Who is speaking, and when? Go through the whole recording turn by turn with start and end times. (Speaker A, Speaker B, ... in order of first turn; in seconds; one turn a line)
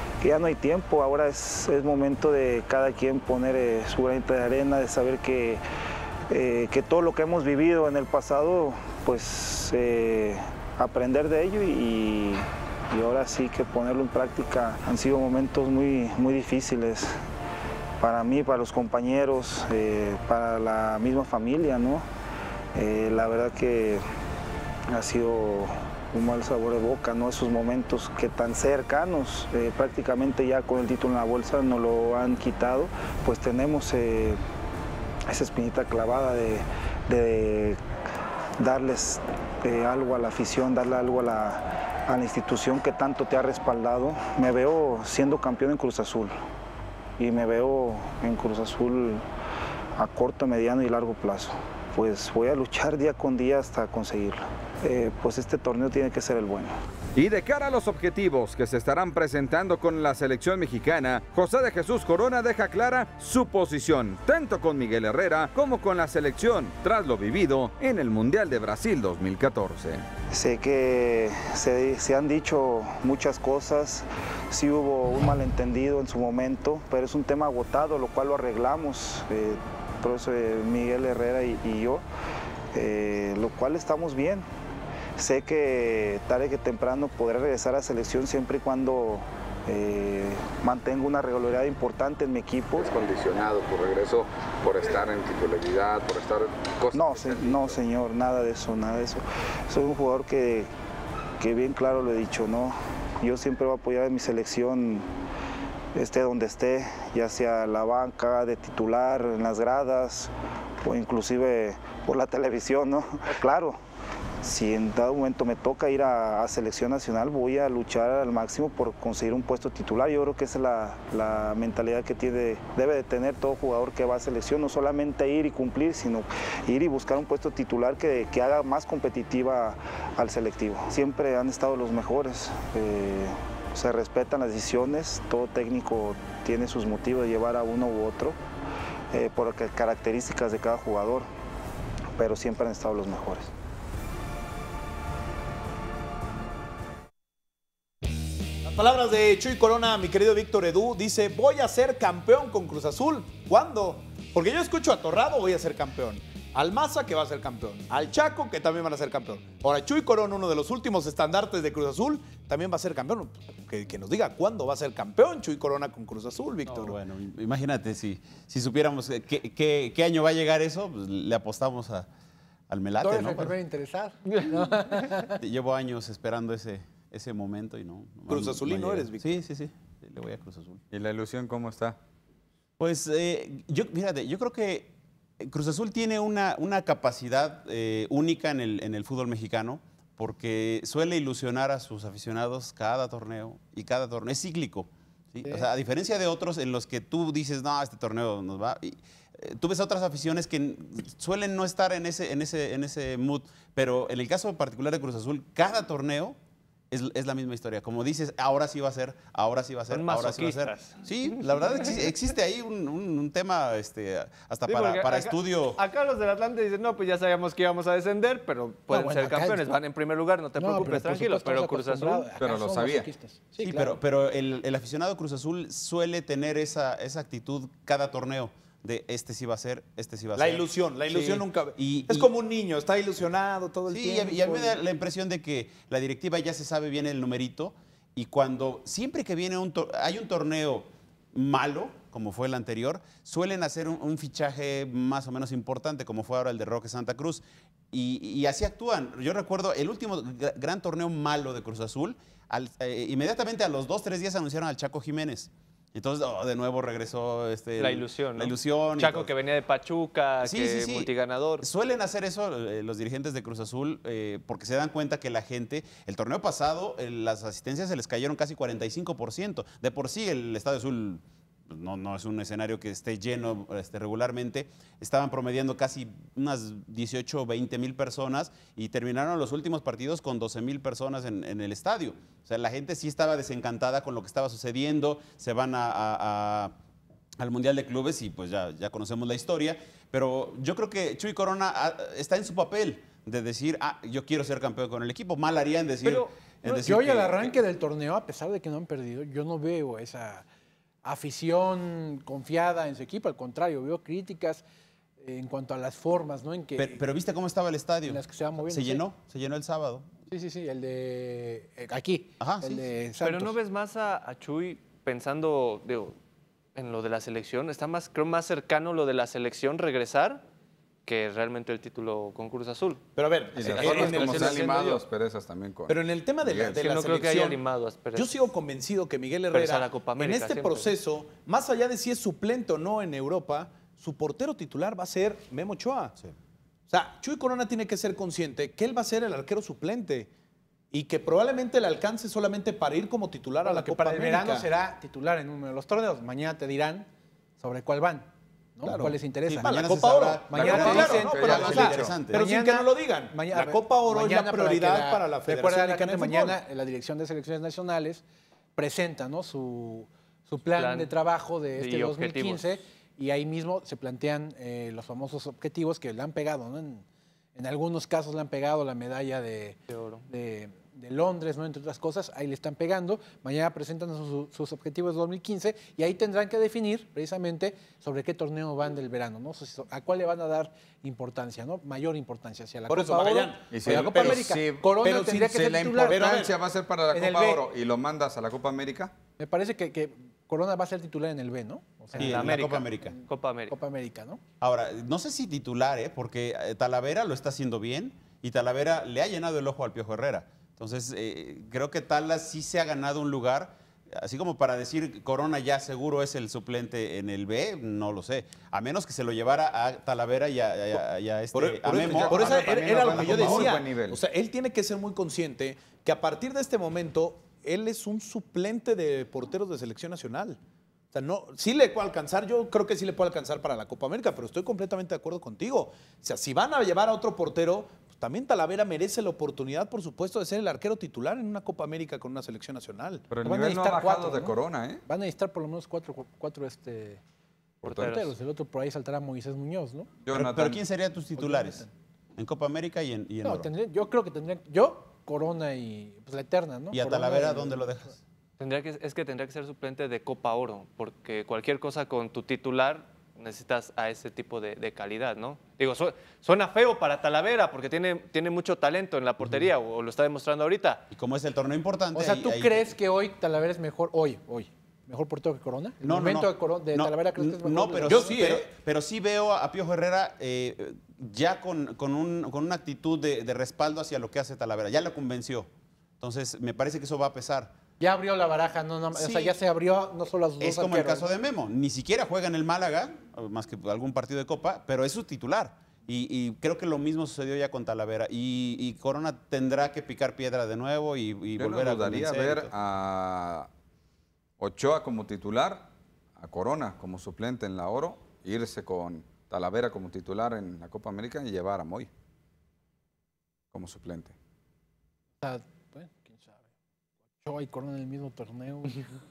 Speaker A: 0.2-5.6
Speaker A: 6.3-17.1
Speaker A: 18.0-22.1
Speaker A: 22.8-24.0
Speaker A: 24.9-34.4
Speaker A: 35.3-37.8
Speaker A: 38.6-46.3
Speaker A: 47.2-49.2
Speaker A: 50.0-56.7
Speaker B: 57.1-70.0
Speaker A: 70.3-82.0
Speaker A: 82.7-84.5
Speaker A: 85.2-92.9
Speaker B: 92.8-97.8
Speaker A: 96.9-100.7
Speaker A: 101.4-105.0
Speaker A: 106.0-110.3
Speaker A: 110.8-113.8
Speaker A: 114.4-138.4
Speaker A: 139.1-141.3
Speaker A: 142.2-143.5
Speaker C: 148.7-167.0
Speaker D: 166.7-172.1
Speaker D: 172.7-173.6
Speaker E: 173.0-175.4
Speaker D: 175.3-180.8
Speaker C: 178.3-179.3
Speaker B: 180.9-182.0
Speaker D: 182.8-206.4
Speaker D: 206.9-215.8
Speaker F: 209.9-212.1
Speaker F: 214.7-222.3
Speaker E: 218.9-219.7
Speaker E: 220.6-224.0
Speaker B: 222.4-223.1
Speaker D: 223.6-232.3
Speaker C: 230.4-234.8
Speaker D: 233.9-259.3
Speaker F: 257.8-261.6
Speaker D: 260.4-286.7
Speaker D: 287.4-297.6
Speaker F: 296.0-296.3
Speaker E: 296.7-300.5
Speaker E: 301.0-304.6
Speaker E: 305.2-307.0
Speaker D: 306.8-310.1
Speaker E: 308.0-309.0
Speaker E: 310.3-313.6
Speaker D: 312.4-312.9
Speaker F: 313.2-316.2
Speaker F: 316.8-320.4
Speaker F: 321.1-323.0
Speaker C: 323.2-324.9
Speaker B: 323.6-326.8
Speaker F: 323.6-325.0
Speaker C: 325.9-336.1
Speaker F: 326.8-328.3
Speaker F: 329.5-331.0
Speaker C: 336.9-340.3
Speaker C: 340.9-344.7
Speaker E: 343.6-347.1
Speaker E: 347.6-349.9
Speaker D: 348.9-352.5
Speaker C: 348.9-356.6
Speaker E: 350.5-358.2
Speaker B: 351.0-352.2
Speaker E: 358.8-367.0
Speaker F: 360.8-361.1
Speaker F: 361.8-362.6
Speaker E: 367.6-386.2
Speaker F: 369.9-370.2
Speaker C: 382.9-386.6
Speaker B: 383.7-384.9
Speaker B: 385.6-389.1
Speaker E: 387.1-387.6
Speaker E: 389.4-392.5
Speaker F: 392.1-393.8
Speaker D: 392.2-393.2
Speaker E: 393.7-394.4
Speaker D: 394.6-413.8
Speaker C: 411.5-420.6
Speaker B: 411.9-414.2
Speaker C: 421.1-433.3
Speaker B: 433.3-435.0
Speaker E: 433.4-437.2
Speaker E: 437.8-440.2
Speaker F: 437.8-438.4
Speaker B: 440.2-440.8
Speaker D: 440.3-441.9
Speaker E: 441.4-441.9
Speaker D: 442.4-443.7
Speaker E: 443.4-447.9
Speaker D: 446.9-448.2
Speaker F: 448.6-461.0
Speaker D: 461.1-462.9
Speaker E: 462.1-468.4
Speaker D: 466.0-475.7
Speaker C: 468.0-468.7
Speaker D: 476.2-477.7
Speaker E: 478.0-481.3
Speaker D: 479.1-479.5
Speaker D: 480.6-492.7
Speaker B: 491.6-493.7
Speaker B: 494.6-502.1
Speaker B: 503.7-504.4
Speaker E: 505.4-506.5
Speaker E: 507.4-509.2